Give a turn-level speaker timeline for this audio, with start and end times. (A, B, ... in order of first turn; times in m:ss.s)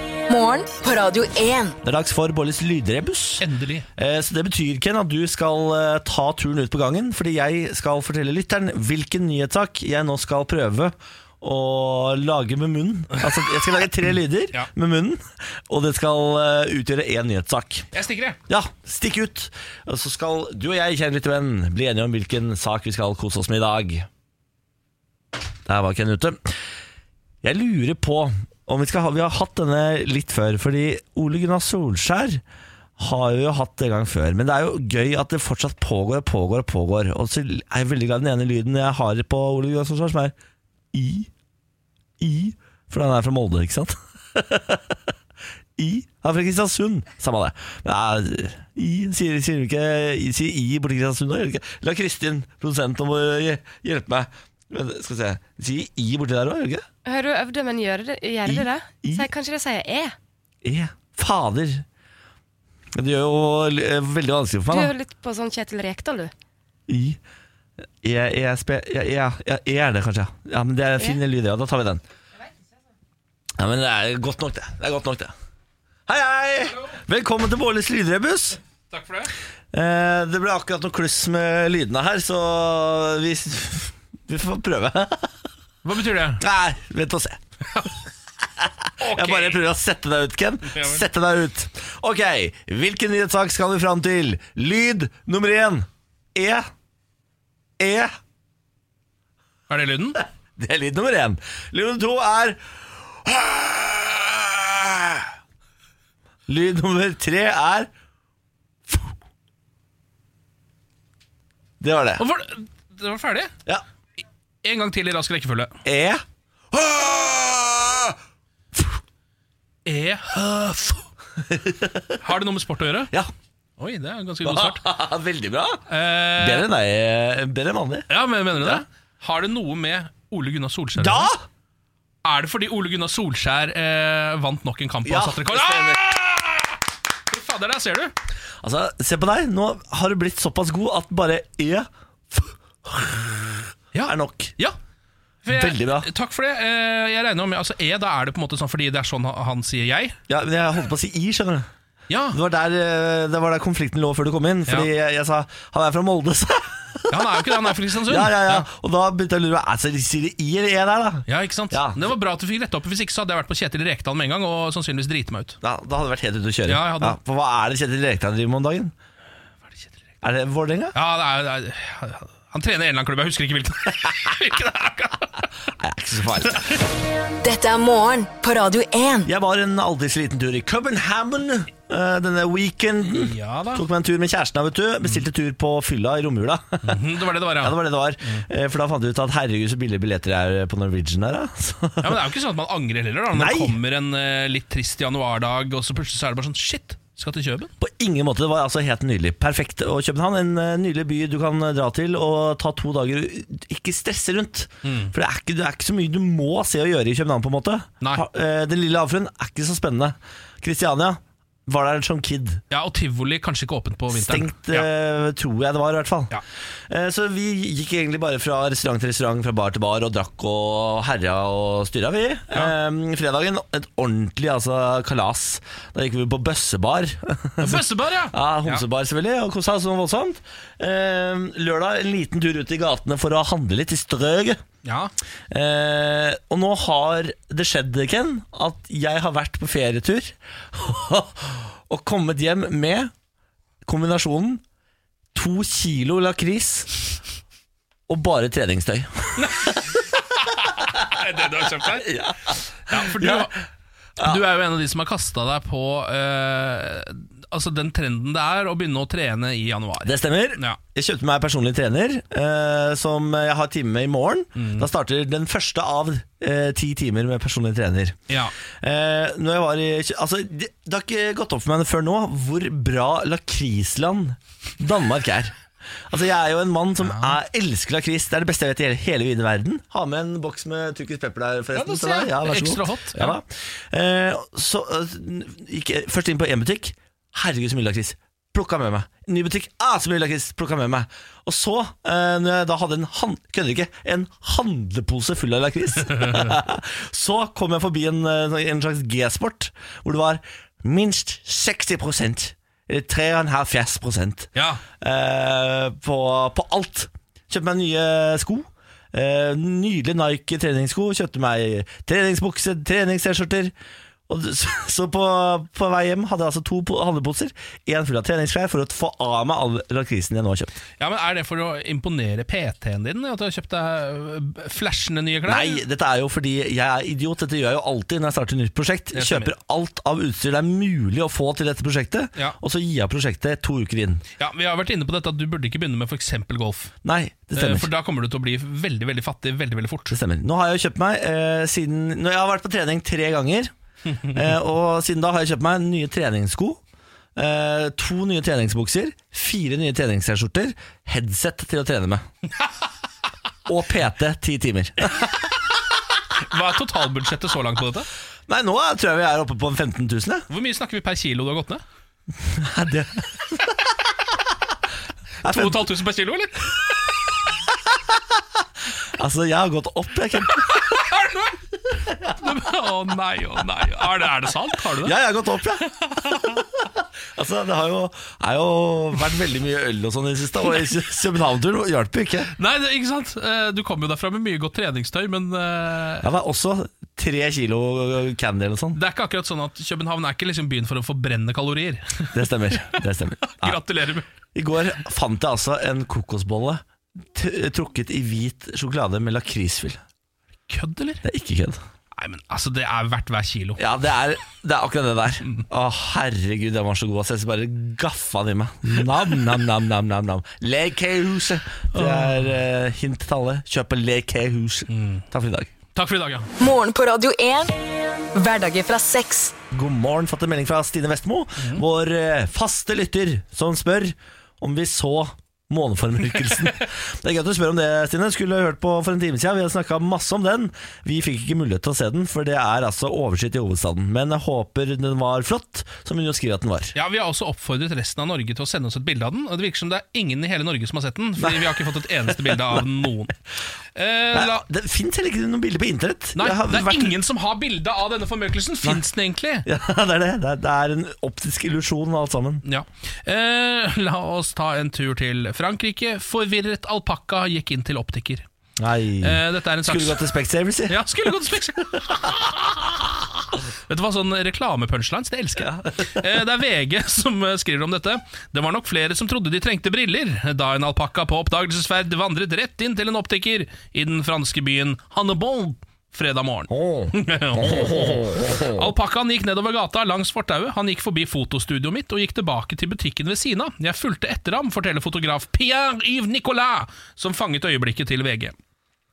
0:00.3-0:01.8 A
0:01.8-0:03.4 B
0:03.4-0:03.9 C
0:04.0-0:17.9 B
0:17.9-0:18.4 C
0:18.5-0:24.1 B
0:25.6-0:26.5 B
0:27.4-0:32.4 B
0:33.0-0:40.3 B
0:40.9-0:41.3 B
0:42.2-0:44.9 B
0:45.8-0:56.8 B
0:57.0-1:00.1 D
0:58.4-0:59.2 B
1:00.6-1:01.8 B
1:02.9-1:04.9 B
1:04.7-1:06.3 D
1:06.9-1:07.2 B
1:08.0-1:12.0 B
1:13.6-1:15.3 B
1:16.1-1:18.6 B
1:18.9-1:19.3 C
1:19.7-1:25.3 B
1:25.8-1:26.4 C
1:26.4-1:27.4 B
1:28.6-1:36.7 B
1:29.0-1:29.6 C
1:30.7-1:31.0 C
1:37.8-1:38.1 B
1:39.7-1:40.2 C
1:40.6-1:42.6 B
1:43.2-1:45.3 B
1:46.5-1:47.9 B
1:51.8-1:52.2 B
1:52.2-1:53.5 C
1:54.6-1:55.7 C
1:55.8-1:58.2 B
1:59.9-2:01.0 C
2:01.5-2:02.2 B
2:02.2-2:03.1 C
2:03.8-2:04.8 C
2:04.4-2:05.8 B
2:05.9-2:06.6 C
2:06.4-2:08.1 B
2:08.1-2:11.3 C
2:11.0-2:11.4 B
2:12.2-2:18.1 C
2:15.0-2:16.0 B
2:18.6-2:24.5 B
2:23.9-2:24.8 C
2:25.4-2:30.2 C
2:25.5-2:26.1 B
2:30.3-2:31.7 B
2:32.1-2:32.4 C
2:32.3-2:42.0 B
2:37.1-2:38.6 C
2:41.3-2:45.6 C
2:45.6-2:48.9 B
2:46.7-2:47.2 C
2:50.2-2:50.9 B
2:50.9-2:55.4 C
2:55.8-2:56.6 B
2:57.4-2:59.3 A
2:59.2-3:07.0 B
3:03.0-3:03.8 C
3:06.8-3:08.4 C
3:07.6-3:12.2 B
3:12.0-3:17.7 C
3:13.3-3:13.7 B
3:17.8-3:32.6 B
3:24.8-3:25.1 C
3:32.7-3:34.9 C
3:34.1-3:36.3 B
3:36.9-3:54.6 B
3:47.6-3:48.8 C
3:54.8-3:55.1 C
3:55.5-4:03.1 B
4:03.8-4:04.6 B
4:05.3-4:06.9 B
4:08.1-4:09.8 B
4:09.4-4:09.9 C
4:10.4-4:12.1 C
4:11.8-4:13.5 B
4:12.9-4:13.6 C
4:14.2-4:20.8 C
4:20.0-4:28.2 B
4:24.6-4:24.9 C
4:28.8-4:35.5 B
4:36.1-5:13.7 B
4:37.0-4:37.4 C
4:41.7-4:43.4 C
4:56.1-4:56.5 C
5:04.5-5:04.8 C
5:14.3-5:20.7 B
5:21.0-5:25.8 C
5:25.4-5:34.2 B
5:29.1-5:29.5 C
5:34.4-5:36.9 C
5:37.0-5:37.9 B
5:37.6-5:40.1 C
5:40.1-5:43.7 B
5:44.2-5:46.8 B
5:47.4-5:52.2 B
5:53.7-5:55.2 B
5:56.4-5:58.1 C
5:58.5-6:00.4 B
6:00.5-6:01.8 C
6:02.4-6:03.8 B
6:05.4-6:05.9 B
6:05.4-6:07.0 C
6:09.2-6:10.9 B
6:10.6-6:11.6 C
6:12.2-6:15.1 C
6:15.0-6:16.8 B
6:16.1-6:16.6 C
6:17.3-6:22.5 B
6:22.6-6:26.2 C
6:26.2-6:29.0 B
6:28.9-6:34.2 C
6:32.3-6:33.8 B
6:34.5-6:36.8 B
6:37.3-6:40.0 B
6:40.7-6:41.2 C
6:41.2-6:41.8 B
6:42.1-6:43.8 C
6:43.8-6:55.7 B
6:51.9-6:52.5 C
6:54.9-6:55.2 C
6:55.9-6:56.5 C
6:56.6-6:59.6 A
6:59.7-7:16.9 B
7:16.9-7:23.3 C
7:21.4-7:22.8 B
7:23.9-7:24.6 C
7:24.3-7:27.1 B
7:26.4-7:29.6 C
7:29.6-7:32.6 B
7:32.6-7:38.4 C
7:38.8-7:41.0 B
7:39.2-7:40.3 C
7:40.9-8:08.5 C
7:45.6-7:46.2 B
7:56.7-7:58.9 B